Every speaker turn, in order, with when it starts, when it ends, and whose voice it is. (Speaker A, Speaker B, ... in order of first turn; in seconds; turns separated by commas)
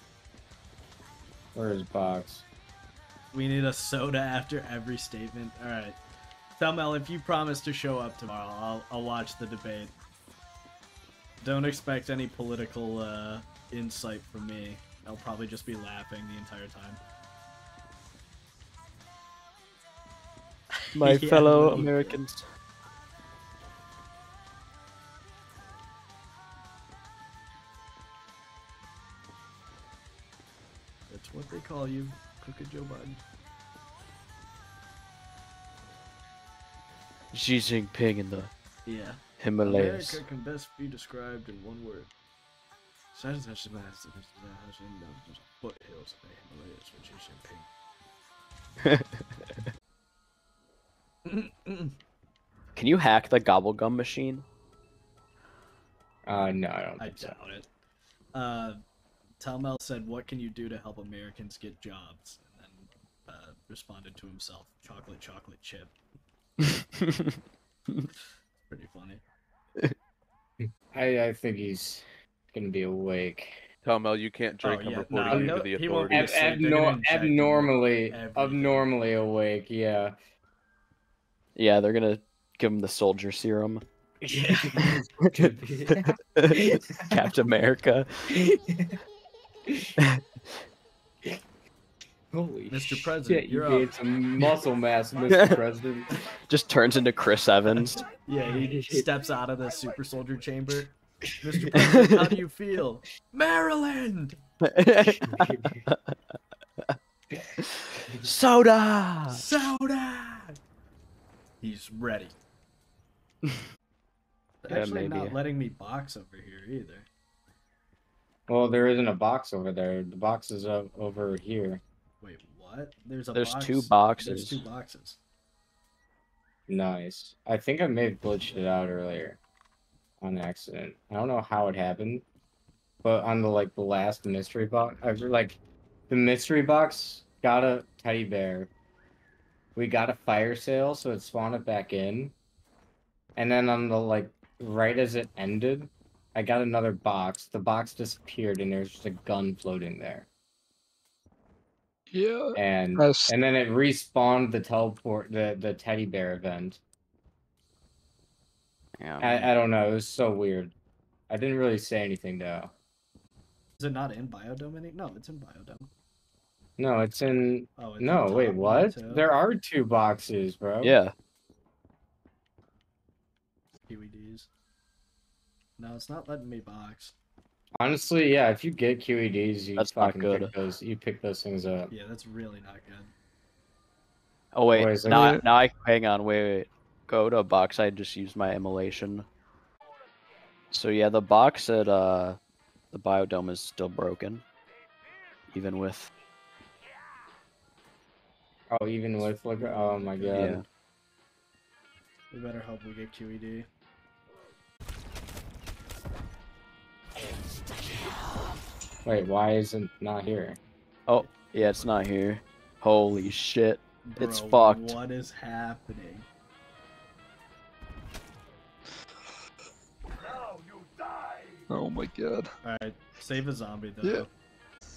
Speaker A: 1.5-2.4, Speaker B: 3.3-6.0, Speaker B: 6.6-9.9, Speaker B: 11.4-17.0, Speaker C: 20.9-22.4, Speaker B: 21.0-22.2, Speaker B: 31.1-33.2, Speaker C: 37.3-38.5, Speaker B: 38.9-42.1, Speaker C: 39.4-40.2, Speaker B: 43.1-47.7, Speaker C: 48.8-49.1, Speaker B: 51.2-51.9, Speaker C: 52.8-54.4, Speaker A: 56.3-57.4, Speaker B: 57.0-57.7, Speaker B: 58.3-58.8, Speaker B: 59.4-65.9, Speaker C: 67.0-67.3, Speaker B: 68.7-69.2, Speaker A: 70.9-73.6, Speaker D: 73.8-76.3, Speaker B: 74.6-78.9, Speaker A: 75.3-80.1, Speaker C: 81.5-83.8, Speaker A: 84.2-87.2, Speaker C: 86.4-88.3, Speaker A: 88.4-88.9, Speaker A: 92.3-96.1, Speaker B: 92.7-93.9, Speaker C: 95.3-95.6, Speaker C: 96.5-98.0, Speaker B: 98.2-104.4, Speaker A: 98.5-99.1, Speaker C: 102.0-102.3, Speaker C: 104.7-106.2, Speaker A: 105.3-105.8, Speaker C: 107.6-109.4, Speaker B: 109.3-110.6, Speaker B: 111.6-112.3, Speaker B: 114.6-117.1, Speaker C: 114.7-115.4, Speaker A: 118.5-121.8, Speaker B: 122.2-125.2, Speaker C: 123.3-124.6, Speaker A: 126.7-129.4, Speaker A: 130.2-132.2, Speaker A: 133.0-135.6, Speaker A: 136.1-138.7, Speaker A: 139.8-142.3, Speaker A: 143.3-150.3, Speaker E: 152.1-153.3, Speaker A: 152.6-156.8, Speaker C: 159.0-159.5, Speaker A: 159.2-160.7, Speaker A: 161.3-162.7, Speaker B: 163.8-165.9, Speaker A: 166.8-170.9, Speaker B: 167.8-169.3, Speaker C: 170.8-171.1, Speaker B: 173.9-174.5, Speaker B: 175.8-177.1, Speaker A: 177.8-181.9, Speaker C: 179.8-180.5, Speaker B: 181.9-183.1, Speaker C: 184.5-189.2, Speaker A: 184.7-185.3, Speaker E: 185.1-185.4, Speaker C: 190.7-192.4, Speaker C: 192.9-194.4, Speaker C: 195.5-196.1, Speaker A: 198.7-200.6, Speaker B: 199.2-200.5, Speaker C: 200.3-200.6, Speaker B: 202.3-203.7, Speaker A: 209.0-210.6, Speaker C: 211.1-215.0, Speaker B: 211.3-212.0, Speaker B: 214.1-216.3, Speaker E: 221.7-222.5, Speaker B: 222.6-224.3